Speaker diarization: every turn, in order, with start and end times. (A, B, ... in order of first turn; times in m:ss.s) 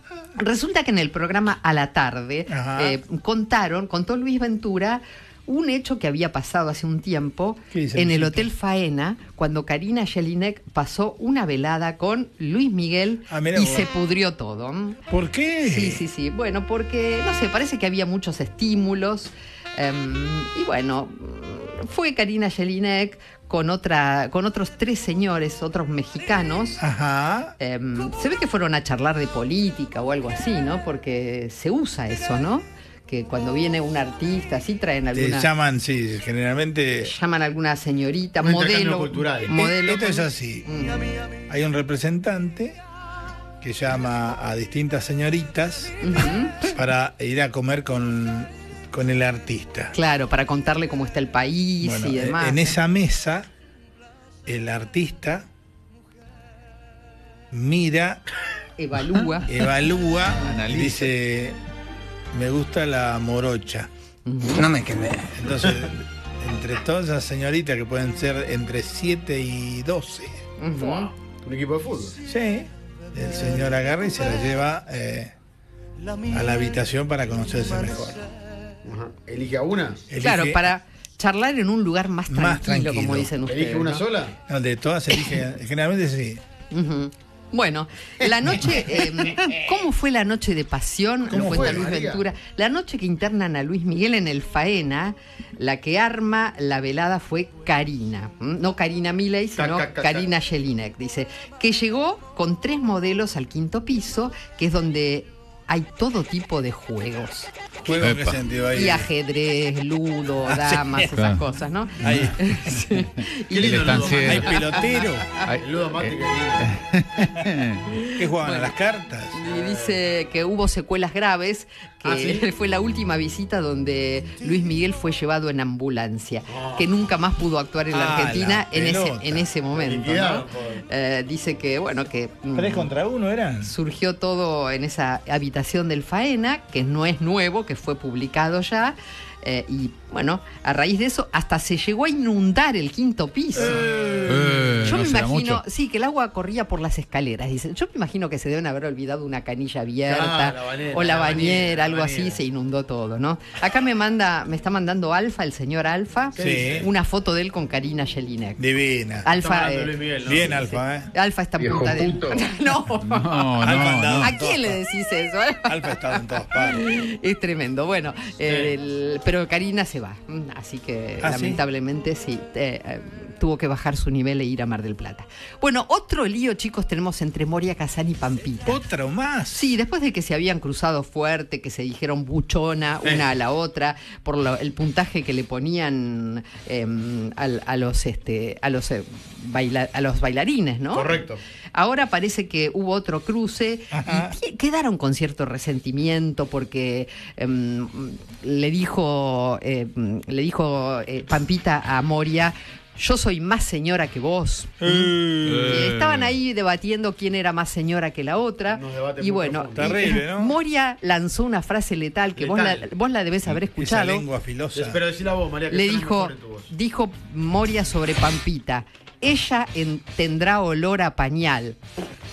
0:00.4-0:15.0 A
0:02.5-0:03.0 B
0:07.7-0:08.5 B
0:13.3-0:13.9 B
0:15.1-0:16.0 B
0:15.6-0:26.8 A
0:26.8-0:27.6 B
0:27.6-0:35.5 A
0:35.1-0:37.1 B
0:37.0-0:41.1 A
0:38.4-0:39.6 C
0:39.5-0:40.7 B
0:41.5-0:42.8 B
0:43.6-0:49.9 B
0:46.0-0:46.6 A
0:49.9-0:52.8 A
0:51.8-0:53.5 B
0:54.5-0:55.5 B
0:57.5-0:58.2 B
0:58.8-0:59.5 A
0:59.4-1:01.6 B
1:00.4-1:01.1 D
1:02.3-1:03.9 B
1:04.3-1:04.7 A
1:04.6-1:10.4 B
1:10.6-1:11.1 A
1:10.8-1:12.2 C
1:12.2-1:15.3 B
1:16.3-1:18.3 B
1:18.8-1:20.0 C
1:20.1-1:20.7 B
1:20.2-1:24.0 A
1:22.3-1:23.3 B
1:23.5-1:24.4 C
1:24.5-1:26.4 B
1:26.7-1:48.1 A
1:31.3-1:31.9 B
1:31.3-1:32.2 C
1:39.6-1:40.3 C
1:47.8-1:49.1 B
1:47.9-1:48.4 D
1:48.7-1:55.4 A
1:50.5-1:51.1 B
1:51.1-1:51.4 D
1:52.0-1:52.5 B
1:52.0-1:52.3 D
1:53.5-1:54.7 C
1:53.6-1:54.5 D
1:54.2-1:55.3 B
1:55.4-1:57.8 D
1:55.6-1:56.7 C
1:58.0-1:58.8 A
1:58.2-1:59.4 B
1:59.3-2:12.9 A
1:59.5-2:00.0 C
2:02.0-2:02.4 C
2:06.5-2:06.9 C
2:07.9-2:09.5 B
2:09.7-2:10.8 C
2:12.6-2:13.7 B
2:13.6-2:23.8 A
2:23.5-2:24.9 C
2:24.2-2:25.6 D
2:24.8-2:38.6 A
2:30.1-2:32.4 C
2:36.4-2:36.9 C
2:36.4-2:36.9 B
2:38.6-2:39.3 B
2:39.2-2:43.5 A
2:39.4-2:40.6 C
2:40.2-2:41.1 B
2:43.0-2:44.3 D
2:43.6-2:44.8 B
2:44.1-2:58.8 A
2:45.7-2:46.8 B
2:48.4-2:48.7 C
2:51.2-2:51.6 B
2:58.6-2:59.7 B
2:59.5-3:11.2 A
3:10.9-3:11.4 C
3:11.7-3:34.3 A
3:13.9-3:14.4 B
3:24.8-3:25.9 B
3:25.4-3:26.4 D
3:28.7-3:30.0 C
3:29.8-3:30.6 B
3:32.4-3:32.9 C
3:33.5-3:35.0 B
3:34.7-3:36.7 C
3:35.7-3:41.8 A